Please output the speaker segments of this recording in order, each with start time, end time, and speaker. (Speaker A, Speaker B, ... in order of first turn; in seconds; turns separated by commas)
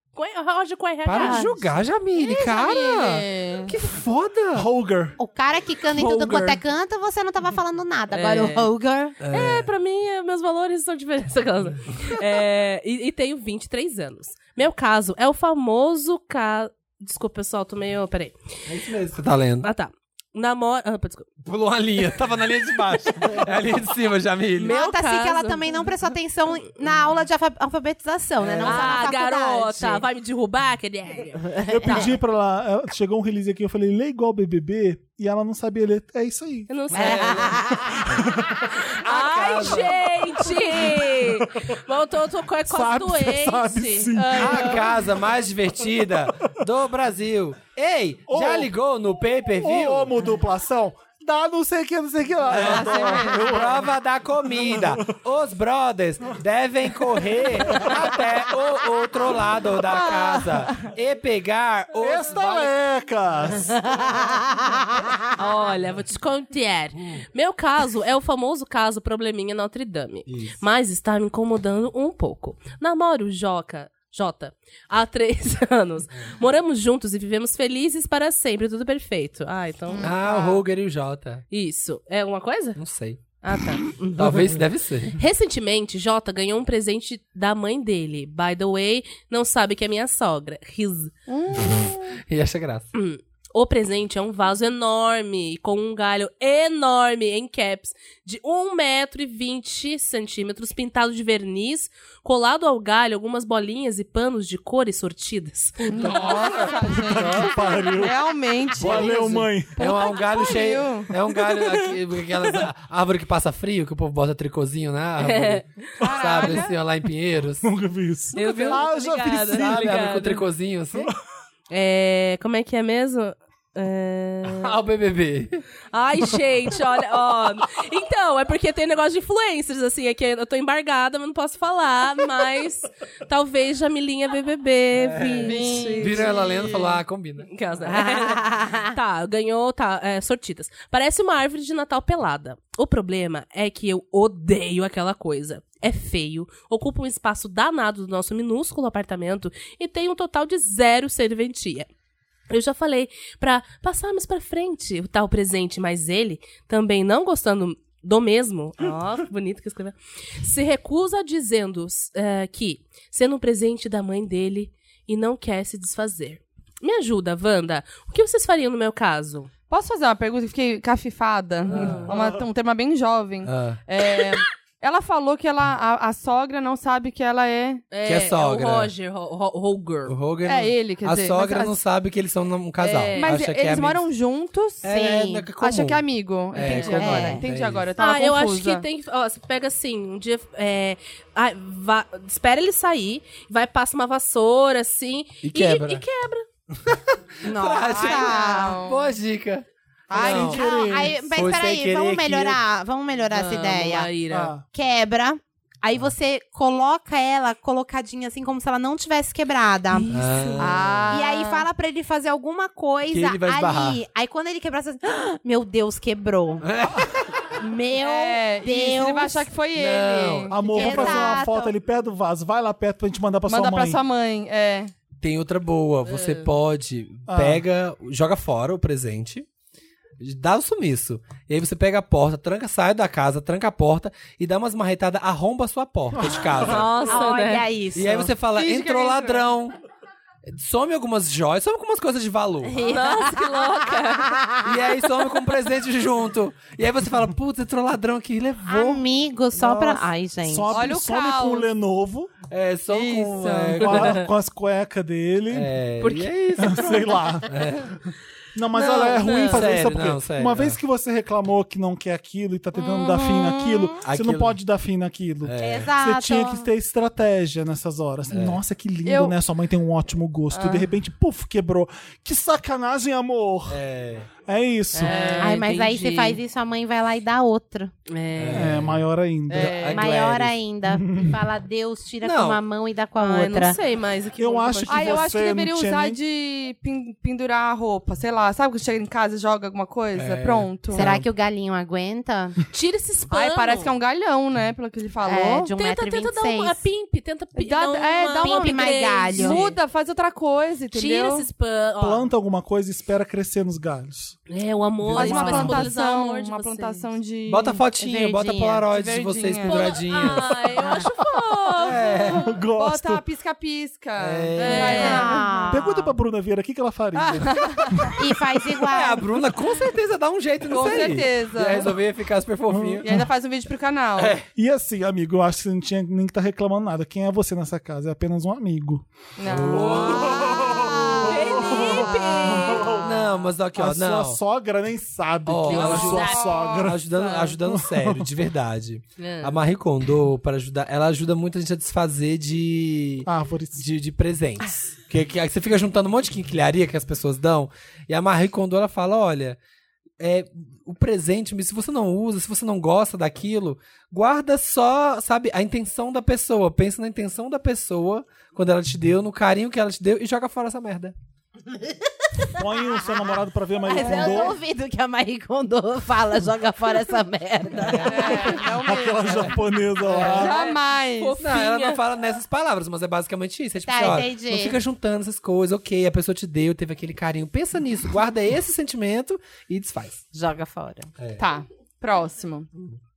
Speaker A: 0.2-1.7, Speaker B: 1.1-4.7, Speaker C: 2.2-3.7, Speaker D: 4.5-5.2, Speaker E: 5.2-9.2, Speaker A: 6.1-6.4, Speaker A: 8.1-8.7, Speaker B: 9.2-9.7, Speaker A: 9.3-18.4, Speaker B: 18.7-19.7, Speaker A: 19.6-21.3, Speaker B: 21.4-24.7, Speaker A: 24.6-25.7, Speaker E: 24.6-30.1, Speaker B: 28.4-29.0, Speaker A: 28.6-32.0, Speaker E: 31.4-32.1, Speaker D: 31.7-36.7, Speaker A: 36.7-37.6, Speaker B: 36.9-37.6, Speaker E: 36.9-38.1, Speaker D: 38.1-38.8, Speaker A: 38.7-44.6, Speaker B: 39.0-40.1, Speaker D: 40.4-41.5, Speaker D: 42.7-45.0, Speaker B: 44.3-50.2, Speaker D: 48.3-48.7, Speaker D: 49.6-53.9, Speaker B: 52.5-62.8, Speaker C: 52.5-53.6, Speaker D: 54.5-55.0, Speaker D: 57.6-58.1, Speaker D: 62.0-64.5, Speaker A: 65.4-80.1, Speaker B: 67.0-67.2, Speaker B: 70.3-70.6, Speaker C: 79.9-80.6, Speaker B: 80.0-81.5, Speaker A: 81.5-82.8, Speaker B: 82.8-83.2, Speaker A: 83.4-84.6, Speaker B: 84.2-85.2, Speaker A: 85.2-91.1, Speaker C: 91.3-92.0, Speaker B: 91.5-92.9, Speaker A: 92.9-106.3, Speaker C: 105.9-111.1, Speaker B: 106.0-107.5, Speaker D: 106.9-109.8, Speaker B: 108.8-117.6, Speaker A: 115.2-115.7, Speaker C: 116.0-116.8, Speaker D: 117.6-120.1, Speaker A: 118.3-120.4, Speaker B: 118.4-118.8, Speaker B: 119.5-121.1, Speaker A: 121.7-124.7, Speaker B: 124.5-125.6, Speaker A: 125.9-136.4, Speaker B: 134.9-137.5, Speaker C: 135.4-137.0, Speaker A: 137.5-151.9, Speaker E: 137.9-139.0, Speaker A: 152.5-169.5, Speaker C: 169.7-177.9, Speaker A: 171.7-172.1, Speaker D: 172.1-172.4, Speaker B: 173.4-173.8, Speaker A: 177.9-180.2, Speaker B: 178.0-178.9, Speaker B: 180.1-184.1, Speaker C: 180.4-181.8, Speaker A: 182.8-183.3, Speaker C: 183.1-184.8, Speaker B: 184.8-187.9, Speaker E: 184.8-185.5, Speaker C: 185.6-188.8, Speaker A: 186.6-186.9, Speaker E: 186.7-187.4, Speaker A: 188.0-196.4, Speaker B: 195.4-196.1, Speaker B: 196.7-200.6, Speaker E: 197.4-198.8, Speaker C: 197.8-199.1, Speaker D: 200.1-201.3, Speaker C: 200.1-200.6, Speaker E: 200.2-204.1, Speaker B: 201.3-202.6, Speaker A: 203.3-204.5, Speaker D: 204.3-204.7, Speaker E: 204.7-210.1, Speaker A: 209.9-210.7, Speaker B: 210.1-211.2, Speaker C: 210.6-211.6, Speaker E: 210.6-216.7, Speaker B: 213.1-214.0, Speaker B: 216.6-217.3, Speaker E: 217.6-219.5, Speaker C: 218.0-221.2, Speaker B: 219.8-221.1, Speaker D: 220.5-224.0, Speaker E: 220.7-221.7, Speaker C: 223.5-224.9, Speaker B: 225.2-229.5, Speaker A: 226.1-226.5, Speaker D: 227.3-227.6, Speaker B: 230.2-236.9, Speaker D: 236.2-236.9, Speaker A: 236.6-237.6, Speaker E: 237.0-238.3, Speaker B: 237.9-239.8, Speaker C: 238.5-239.4, Speaker B: 240.5-242.8, Speaker A: 242.7-244.4, Speaker E: 242.8-244.8, Speaker B: 244.6-249.0, Speaker E: 248.7-250.9, Speaker D: 249.6-252.3, Speaker C: 250.7-251.7, Speaker B: 252.5-254.2, Speaker C: 252.9-254.0, Speaker D: 253.8-255.7, Speaker B: 255.5-256.9, Speaker A: 256.0-257.6, Speaker D: 256.6-257.5, Speaker B: 257.5-257.9, Speaker D: 258.6-273.8, Speaker A: 258.8-259.6, Speaker B: 259.4-260.8, Speaker E: 262.8-263.9, Speaker B: 264.1-264.6, Speaker B: 265.4-265.9, Speaker E: 265.6-266.7, Speaker B: 268.3-268.6, Speaker C: 269.1-269.4, Speaker C: 270.5-270.9, Speaker B: 273.7-274.3, Speaker D: 274.4-275.3, Speaker A: 274.9-276.4, Speaker C: 275.1-275.5, Speaker E: 275.4-277.9, Speaker A: 278.1-278.8, Speaker B: 278.4-280.6, Speaker D: 278.5-279.9, Speaker C: 279.5-280.2, Speaker E: 279.9-283.8, Speaker D: 280.9-281.4, Speaker B: 282.2-282.6, Speaker A: 283.2-285.3, Speaker D: 284.4-286.2, Speaker C: 284.9-291.1, Speaker B: 290.1-291.2, Speaker E: 290.9-292.6, Speaker A: 292.7-293.9, Speaker C: 293.3-295.7, Speaker E: 295.2-296.8, Speaker A: 295.7-299.8, Speaker C: 297.6-301.5, Speaker E: 298.4-299.7, Speaker A: 300.9-302.3, Speaker D: 302.0-304.4, Speaker A: 304.5-307.1, Speaker D: 305.0-305.9, Speaker C: 305.1-307.8, Speaker B: 307.5-310.6, Speaker E: 308.0-308.9, Speaker C: 308.9-310.1, Speaker A: 309.6-312.5, Speaker E: 310.8-311.1, Speaker D: 311.2-311.6, Speaker B: 311.8-312.5, Speaker D: 312.4-313.2, Speaker C: 312.7-315.6, Speaker B: 314.2-315.3, Speaker A: 314.6-315.7, Speaker E: 314.8-316.1, Speaker D: 315.7-318.2, Speaker C: 317.1-318.1, Speaker E: 318.2-319.4, Speaker B: 318.9-323.1, Speaker C: 320.7-321.9, Speaker D: 322.7-323.3, Speaker C: 323.0-324.4, Speaker B: 324.2-324.5, Speaker D: 324.5-329.1, Speaker C: 329.4-332.9, Speaker B: 329.4-330.6, Speaker D: 330.1-333.2, Speaker A: 331.2-333.1, Speaker B: 333.0-334.4, Speaker D: 333.8-337.1, Speaker B: 335.5-349.6, Speaker C: 336.1-337.5, Speaker D: 337.6-338.2, Speaker A: 339.2-339.6, Speaker D: 343.2-343.8, Speaker B: 350.2-361.1, Speaker D: 362.5-364.6, Speaker E: 362.6-363.0, Speaker E: 363.9-368.5, Speaker A: 367.8-368.5, Speaker B: 367.9-368.6, Speaker C: 368.0-369.6, Speaker D: 368.8-370.6, Speaker A: 370.1-372.0, Speaker B: 370.1-370.5, Speaker C: 370.3-371.4, Speaker B: 371.4-380.2, Speaker E: 373.9-374.8, Speaker E: 380.3-381.1, Speaker C: 381.4-382.7